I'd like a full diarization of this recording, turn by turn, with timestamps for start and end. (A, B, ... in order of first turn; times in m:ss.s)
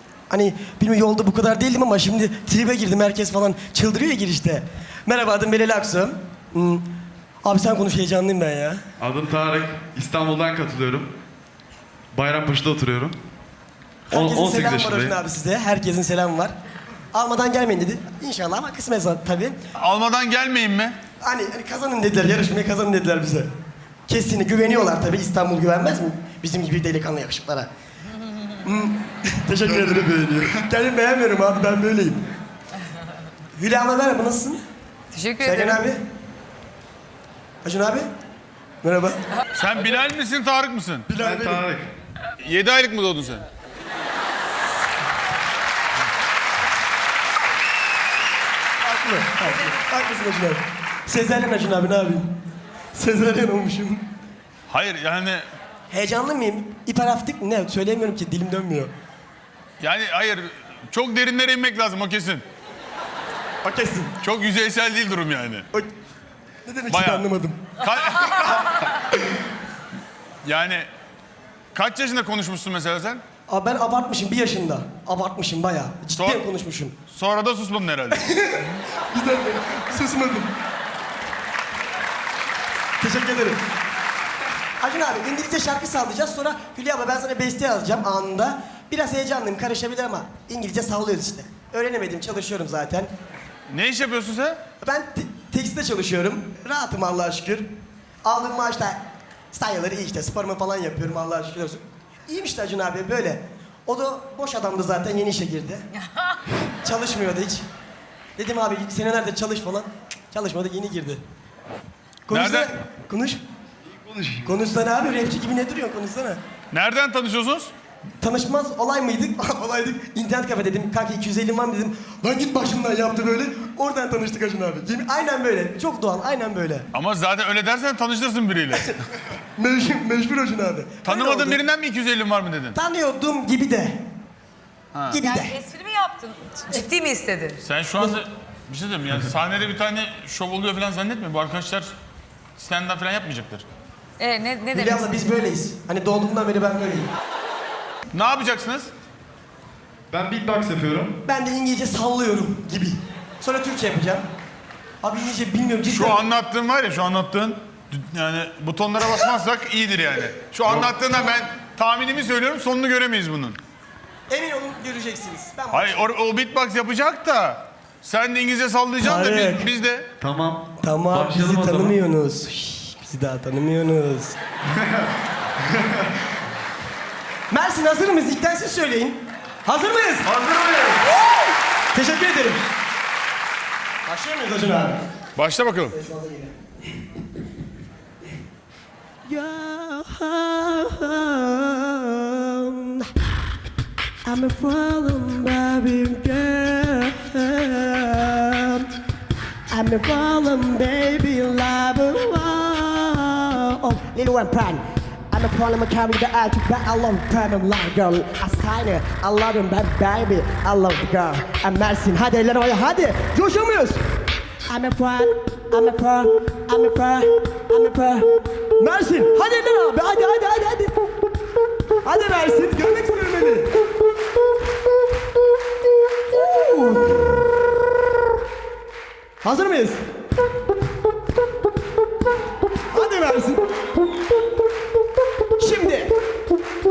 0:00.3-0:06.9 A
0:07.4-0:08.8 A
0:09.0-0:11.2 B
0:12.1-0:13.2 B
0:14.1-0:15.2 B
0:14.1-0:16.5 A
0:17.1-0:19.6 A
0:19.8-0:21.0 C
0:21.2-0:23.5 A
0:24.1-0:27.7 A
0:28.6-0:32.2 A
0:29.8-0:30.6 B
0:33.6-0:34.6 A
0:35.1-0:35.8 D
0:35.4-0:36.0 A
0:37.6-0:38.1 A
0:38.8-0:39.2 A
0:39.5-0:41.1 C
0:41.1-0:41.6 A
0:41.1-0:41.9 B
0:42.4-0:43.4 C
0:48.8-0:52.3 A
0:52.9-0:54.0 A
0:54.7-0:55.4 C
0:55.9-0:58.9 A
0:59.8-1:02.4 C
1:03.6-1:04.1 A
1:04.2-1:05.7 C
1:06.6-1:07.6 A
1:06.9-1:07.2 C
1:07.8-1:08.9 C
1:10.4-1:10.9 C
1:11.7-1:13.2 C
1:13.5-1:16.9 A
1:16.2-1:16.4 C
1:17.1-1:18.2 C
1:18.1-1:20.5 A
1:23.0-1:23.6 A
1:24.8-1:33.1 A
1:33.7-1:34.6 C
1:34.8-1:37.7 A
1:38.2-1:39.0 A
1:39.5-1:45.8 A
1:46.8-1:47.6 A
1:48.4-1:51.2 A
1:52.3-1:53.4 A
1:52.3-1:52.7 C
1:53.9-1:54.5 B
1:54.4-1:56.4 A
1:56.7-1:57.7 C
1:58.2-2:06.9 A
2:06.9-2:08.9 C
2:09.6-2:11.6 A
2:11.0-2:12.8 C
2:12.7-2:14.0 A
2:14.9-2:15.2 C
2:15.1-2:15.6 A
2:15.2-2:17.6 D
2:17.6-2:22.0 C
2:22.6-2:23.7 C
2:24.2-2:25.4 D
2:24.7-2:27.1 A
2:28.1-2:28.9 C
2:30.1-2:31.2 B
2:31.2-2:34.2 A
2:35.0-2:36.2 A
2:35.9-2:43.6 C
2:44.3-2:46.0 A
2:45.7-2:50.1 C
2:49.0-2:49.7 A
2:50.2-2:52.0 B
2:50.8-2:54.4 A
2:54.7-2:55.1 B
2:55.7-2:56.2 B
2:57.5-3:00.3 A
3:00.2-3:01.1 B
3:01.9-3:02.6 A
3:04.1-3:05.0 A
3:05.4-3:06.0 C
3:05.9-3:06.5 A
3:09.3-3:13.1 A
3:14.2-3:18.9 A
3:19.7-3:34.0 A
3:34.7-3:41.0 A
3:42.0-3:43.7 A
3:46.3-3:47.5 A
3:49.4-3:50.0 A
3:52.9-3:53.6 A
3:55.6-3:56.1 A